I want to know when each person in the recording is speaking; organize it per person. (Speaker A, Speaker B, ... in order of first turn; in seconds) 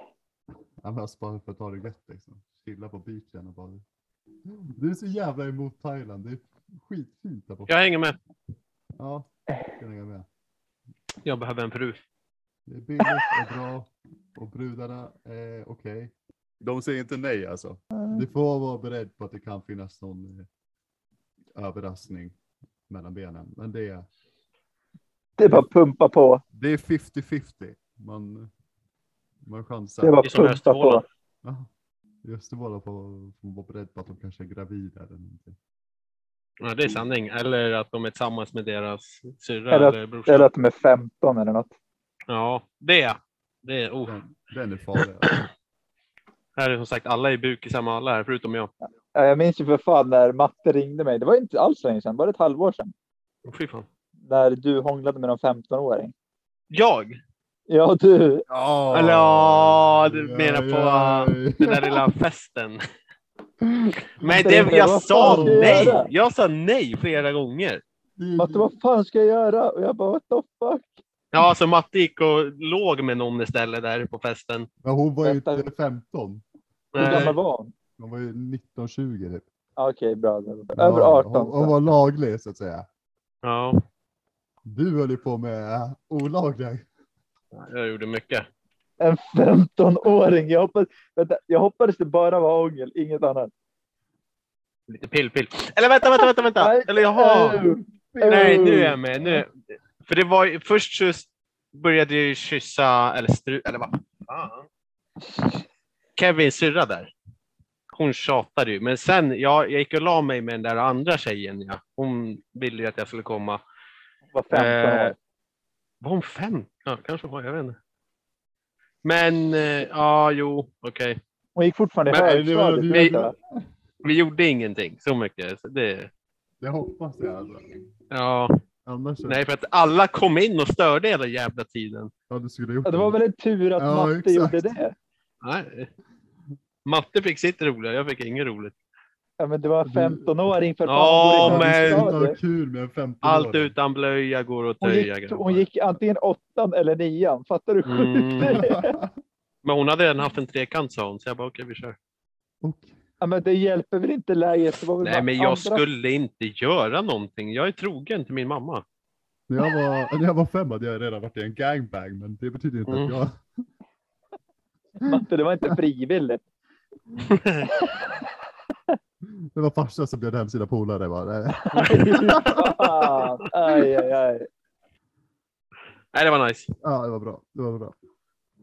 Speaker A: 0.8-3.8, 4.5-7.8, 9.0-10.2, 12.7-20.5, 21.6-22.4, 22.9-24.1, 26.5-28.5, 29.4-30.3, 31.4-31.7, 32.2-35.6, 44.0-45.4, 58.5-61.9, 63.6-64.4, 65.2-66.0, 68.2-68.7, 74.8-76.4, 78.0-79.4, 80.7-82.8, 84.7-86.8, 97.4-99.4, 122.2-123.5, 126.6-127.8, 128.8-129.4, 132.3-133.2, 133.8-134.8, 139.8-140.3, 141.4-143.7, 148.4-149.1, 152.6-152.9, 159.5-163.4, 169.2-172.5, 176.8-177.9
Speaker B: 7.7-8.2, 11.2-12.0, 30.2-31.0, 36.6-40.5, 42.3-44.2, 46.6-48.7, 53.5-53.9, 56.7-57.2, 58.9-62.8, 64.2-67.8, 71.3-74.7, 76.9-77.3, 83.4-83.8, 87.5-88.5, 94.9-97.6, 98.3-99.5, 100.0-104.7, 106.2-107.1, 107.9-113.6, 114.5-115.1, 116.0-117.8, 119.0-121.2, 124.0-126.1, 128.1-128.5, 129.2-132.1, 135.4-135.9, 136.8-138.7, 140.9-142.1, 143.2-145.7, 147.8-148.6, 149.6-152.0, 155.0-158.8, 162.9-163.2, 167.2-167.7, 171.7-172.1, 176.1-176.7
Speaker C: 17.9-18.2, 25.4-26.4, 30.0-31.0, 39.7-41.7, 49.1-52.9, 54.2-56.1, 57.7-58.4, 64.3-66.1, 68.4-70.9, 75.2-75.7, 77.0-77.7, 79.8-81.7, 89.0-93.5, 96.6-98.9, 114.3-115.1, 121.5-123.3, 132.8-134.9, 139.4-142.4, 144.8-148.9, 153.2-155.8, 165.0-166.4, 167.7-168.2, 171.6-174.4